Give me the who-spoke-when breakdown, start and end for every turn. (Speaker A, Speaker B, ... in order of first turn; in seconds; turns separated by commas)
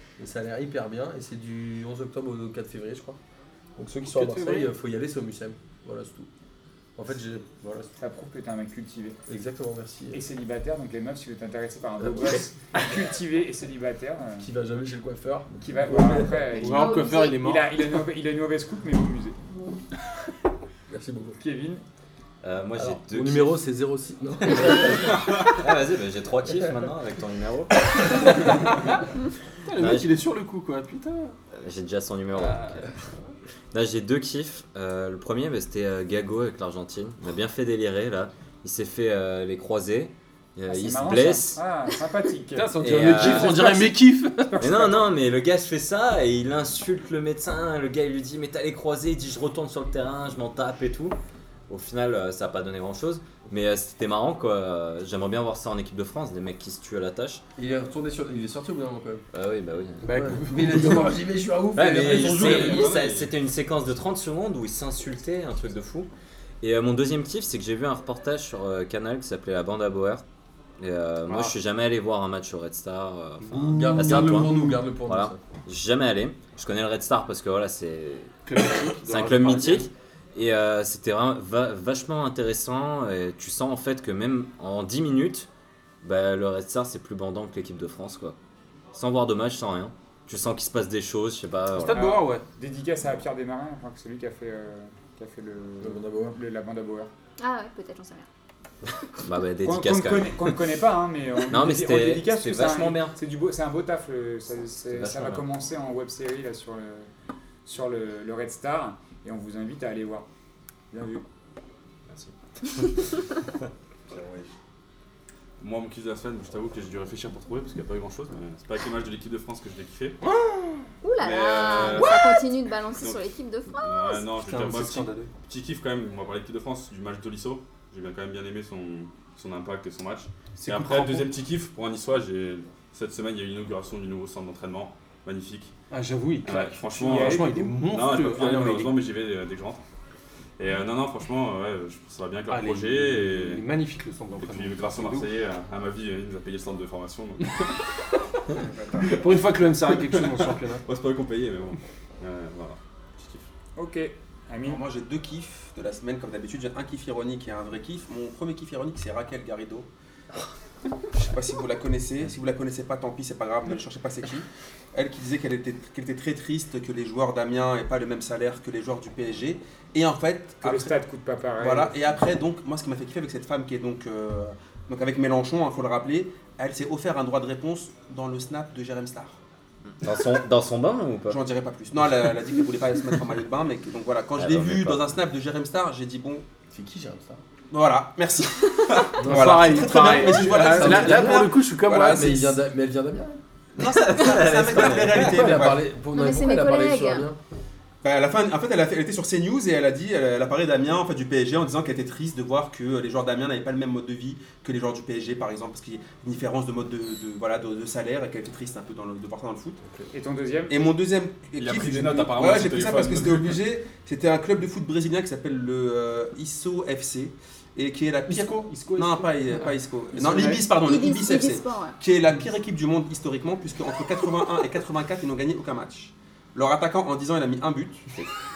Speaker A: 0.2-3.2, Speaker A: 3.8-6.3, Speaker B: 4.1-4.7, Speaker A: 7.0-7.9, Speaker C: 8.0-9.2, Speaker A: 9.3-10.2, Speaker C: 10.1-14.5, Speaker A: 12.0-12.4, Speaker A: 14.4-16.6, Speaker C: 15.6-19.4, Speaker D: 16.6-17.4, Speaker B: 16.6-17.7, Speaker A: 20.9-21.4, Speaker C: 21.4-21.8, Speaker E: 22.4-23.6, Speaker A: 22.8-25.3, Speaker E: 24.4-28.3, Speaker B: 28.2-29.0, Speaker B: 29.7-31.4, Speaker E: 29.8-30.1, Speaker E: 31.6-32.9, Speaker E: 33.7-41.6, Speaker C: 40.7-45.1, Speaker B: 42.5-44.6, Speaker E: 42.8-43.7, Speaker E: 44.6-51.2, Speaker E: 51.7-57.4, Speaker A: 57.6-59.2, Speaker E: 59.3-60.1, Speaker B: 60.0-61.1, Speaker A: 60.1-62.9, Speaker E: 61.7-66.1, Speaker F: 62.0-63.4, Speaker E: 66.6-70.2, Speaker E: 70.8-78.3, Speaker B: 71.3-71.5, Speaker B: 73.4-74.5, Speaker A: 73.7-75.4, Speaker B: 78.5-79.9, Speaker E: 79.0-85.5, Speaker E: 86.0-88.4, Speaker E: 88.9-92.2, Speaker B: 91.7-92.4, Speaker C: 92.6-97.1, Speaker A: 95.8-96.4, Speaker D: 97.4-98.3, Speaker E: 99.2-100.6, Speaker C: 99.6-107.1, Speaker E: 101.5-103.2, Speaker E: 104.9-105.4, Speaker C: 107.7-110.3, Speaker C: 110.9-111.2, Speaker E: 112.2-113.0, Speaker F: 114.1-114.4, Speaker F: 115.6-120.2, Speaker B: 120.2-120.8, Speaker D: 121.0-124.3, Speaker F: 121.2-122.4, Speaker B: 121.9-122.2, Speaker F: 122.9-135.7, Speaker B: 124.4-125.3, Speaker B: 130.6-131.3, Speaker B: 135.9-139.0, Speaker F: 136.4-139.8, Speaker C: 137.0-137.8, Speaker F: 140.6-143.6, Speaker B: 142.5-145.3, Speaker F: 144.4-147.8, Speaker G: 148.5-149.2, Speaker B: 149.1-150.8, Speaker F: 149.9-153.5, Speaker C: 153.8-154.8, Speaker G: 154.7-159.9, Speaker G: 161.1-170.9, Speaker C: 170.6-172.3, Speaker G: 171.6-179.4, Speaker E: 180.0-181.4, Speaker G: 181.3-186.5, Speaker E: 184.4-185.2, Speaker A: 186.7-187.4, Speaker G: 187.7-192.6, Speaker A: 189.2-191.5, Speaker B: 189.2-192.4, Speaker A: 192.1-193.4, Speaker G: 193.8-195.9, Speaker E: 193.8-195.5, Speaker A: 195.1-197.4, Speaker D: 196.1-197.3, Speaker G: 198.0-209.8, Speaker C: 210.1-210.9, Speaker G: 210.7-228.1, Speaker F: 211.6-213.6, Speaker B: 218.3-220.7, Speaker D: 220.8-222.0